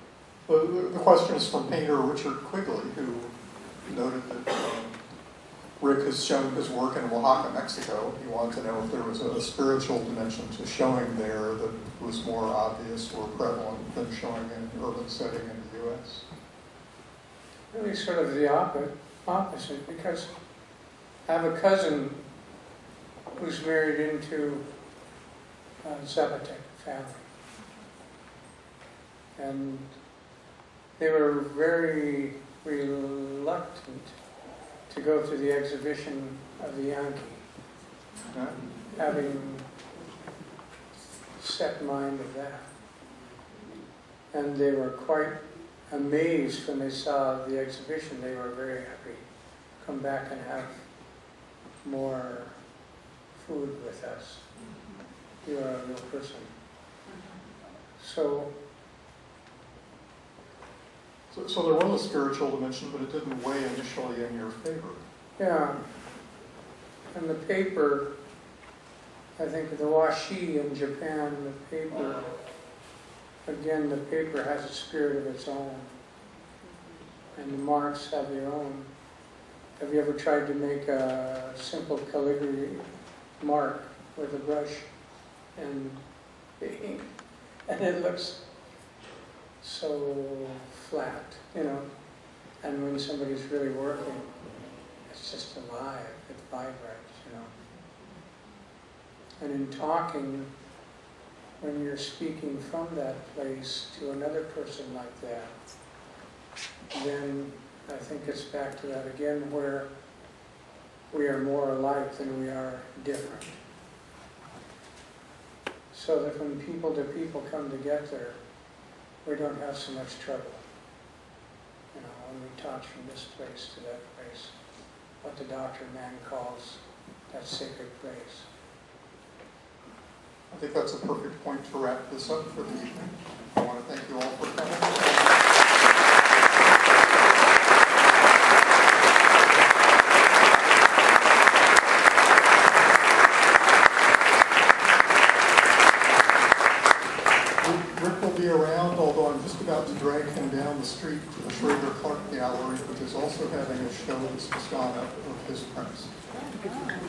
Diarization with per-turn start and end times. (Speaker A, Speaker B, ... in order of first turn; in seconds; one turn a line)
Speaker A: 0.5-5.0
Speaker A: 5.8-16.2
Speaker B: 17.7-20.3
Speaker B: 21.2-22.2
Speaker B: 23.3-24.6
Speaker B: 25.8-27.3
Speaker B: 29.4-29.9
Speaker B: 31.0-34.1
Speaker B: 34.9-37.5
Speaker A: 38.3-38.6
Speaker B: 38.9-39.7
Speaker B: 41.4-42.7
Speaker B: 44.3-49.2
Speaker B: 49.8-50.8
Speaker B: 51.8-52.5
Speaker B: 53.3-54.5
Speaker B: 55.4-56.5
Speaker B: 58.0-58.5
Speaker A: 61.3-65.0
Speaker B: 65.4-65.8
Speaker B: 67.1-68.1
Speaker B: 69.4-72.2
Speaker B: 73.4-76.0
Speaker B: 77.3-78.9
Speaker B: 79.8-82.8
Speaker B: 83.4-84.9
Speaker B: 85.5-86.0
Speaker B: 86.6-87.1
Speaker B: 87.7-88.4
Speaker B: 89.6-91.9
Speaker B: 92.6-94.3
Speaker B: 95.1-97.5
Speaker B: 99.4-100.5
Speaker B: 101.6-105.5
Speaker B: 106.9-109.9
Speaker B: 111.1-113.6
Speaker B: 115.9-118.4
Speaker B: 119.2-120.6
Speaker B: 121.9-124.5
Speaker B: 125.2-128.5
Speaker A: 130.5-135.4
Speaker A: 147.6-156.1